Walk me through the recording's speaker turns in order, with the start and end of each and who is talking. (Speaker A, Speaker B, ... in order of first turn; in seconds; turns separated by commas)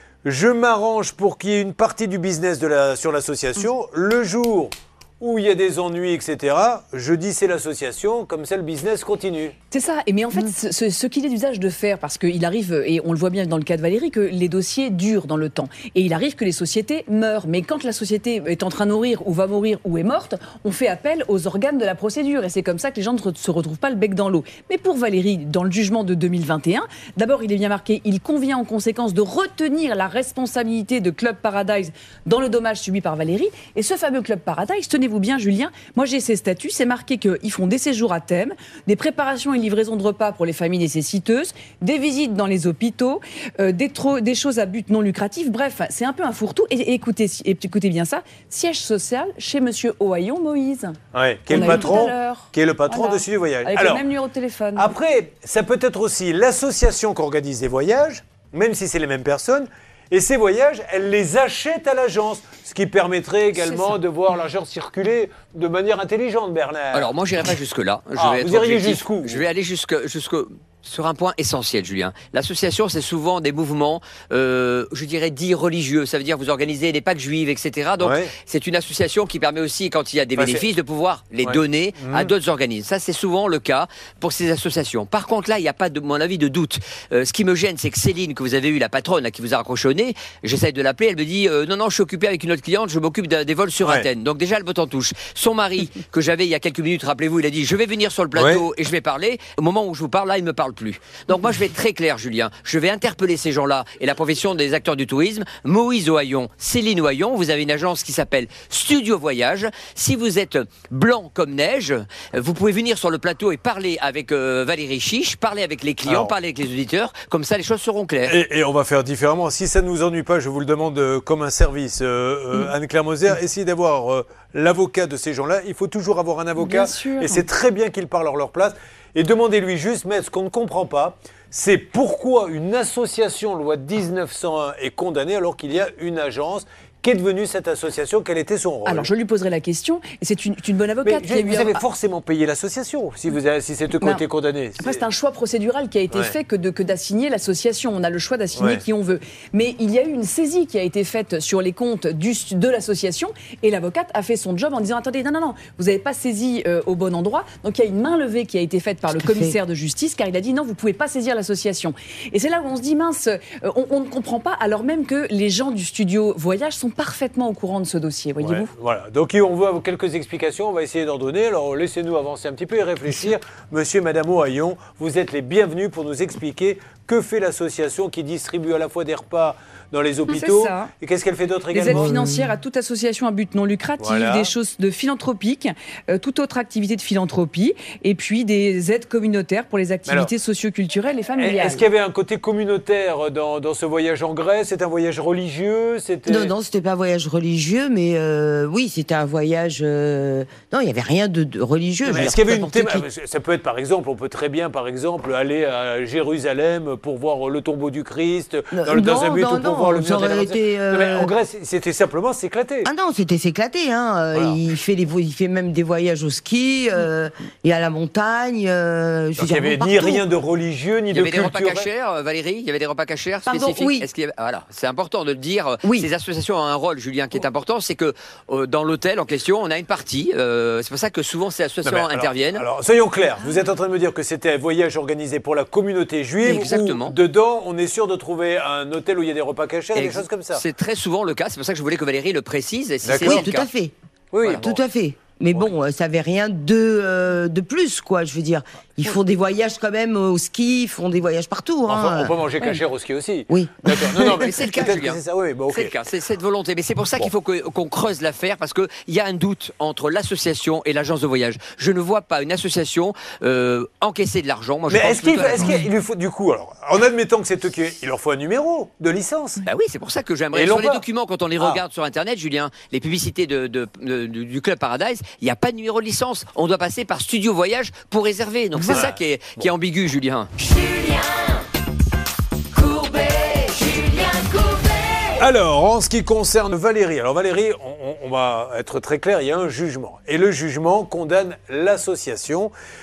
Speaker A: 0.2-9.5, Speaker B: 9.7-51.0, Speaker A: 51.1-54.0, Speaker B: 51.5-54.9, Speaker A: 54.8-67.2, Speaker B: 63.5-64.0, Speaker C: 66.9-118.4, Speaker A: 68.1-69.4, Speaker A: 78.0-78.3, Speaker A: 80.3-80.7, Speaker A: 81.4-82.3, Speaker A: 98.3-98.6, Speaker A: 116.0-116.3, Speaker A: 118.2-139.1, Speaker B: 126.6-127.4, Speaker B: 138.8-141.8, Speaker A: 141.0-145.0, Speaker B: 144.8-168.7, Speaker A: 148.5-148.8, Speaker D: 159.1-159.6, Speaker A: 168.4-182.4, Speaker B: 180.3-180.9, Speaker B: 181.7-191.8, Speaker A: 184.0-184.5, Speaker A: 190.1-190.3, Speaker A: 191.3-196.5, Speaker D: 196.3-203.0, Speaker A: 202.0-212.9, Speaker D: 208.7-211.3, Speaker D: 212.8-220.2, Speaker A: 214.3-214.6, Speaker A: 219.4-221.9, Speaker C: 221.1-232.7, Speaker D: 223.4-224.1, Speaker D: 225.8-226.1, Speaker A: 231.8-240.6, Speaker C: 236.4-237.2, Speaker C: 239.9-243.7, Speaker A: 243.0-243.5, Speaker D: 243.2-243.9, Speaker A: 244.3-244.7, Speaker C: 244.4-244.7, Speaker D: 244.6-252.4, Speaker A: 251.8-255.9, Speaker D: 253.5-254.5, Speaker C: 254.3-265.8, Speaker A: 264.9-269.6, Speaker C: 269.6-280.9, Speaker A: 270.5-271.0, Speaker A: 271.6-271.8, Speaker A: 278.8-279.7, Speaker C: 282.7-285.4, Speaker A: 285.4-292.7